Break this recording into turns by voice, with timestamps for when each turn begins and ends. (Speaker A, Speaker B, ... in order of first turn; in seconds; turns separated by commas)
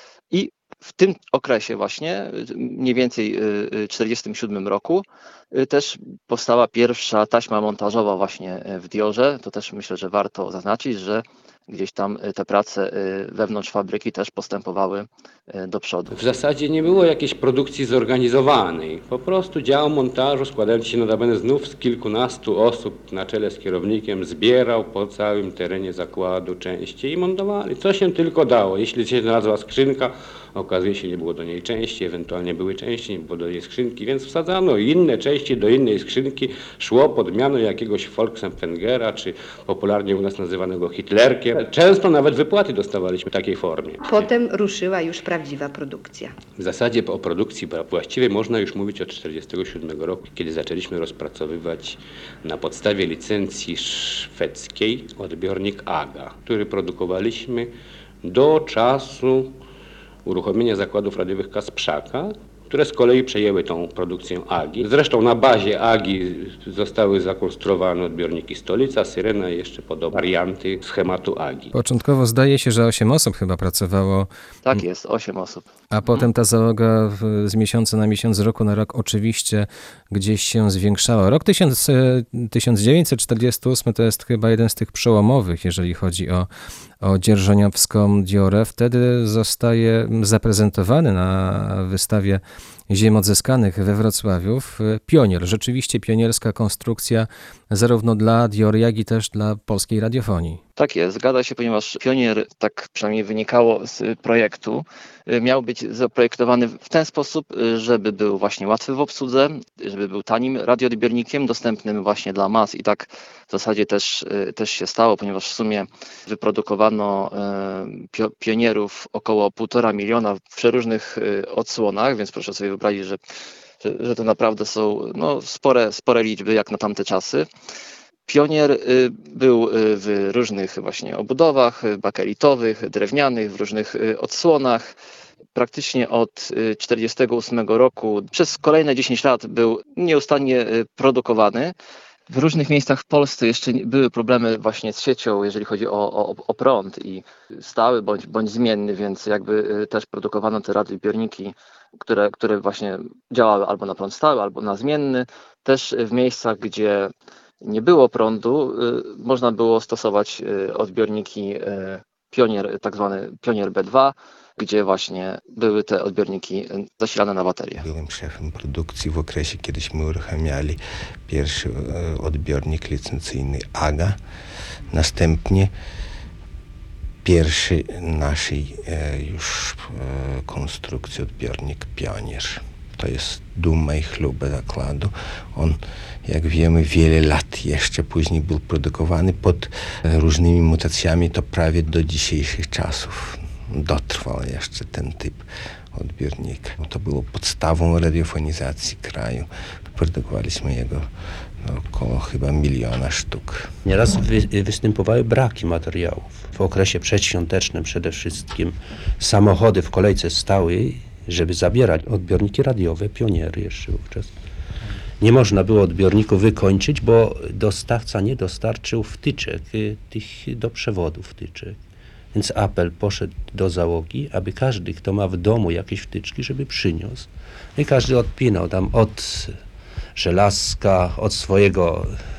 Speaker A: 0.3-16.2, Speaker B: 16.1-44.2, Speaker C: 44.0-46.4, Speaker B: 46.6-57.7, Speaker B: 58.2-59.6, Speaker B: 60.3-71.7, Speaker D: 71.7-74.8, Speaker A: 74.7-76.3, Speaker D: 75.9-86.5, Speaker D: 87.0-100.6, Speaker A: 100.8-123.2, Speaker A: 123.8-127.5, Speaker A: 128.3-134.9, Speaker A: 135.5-141.7, Speaker A: 142.3-167.9, Speaker E: 167.8-174.2, Speaker E: 174.9-175.7, Speaker E: 177.2-201.1, Speaker E: 201.6-203.7, Speaker F: 203.8-214.3, Speaker F: 215.2-221.8, Speaker F: 222.3-229.6, Speaker F: 230.2-232.2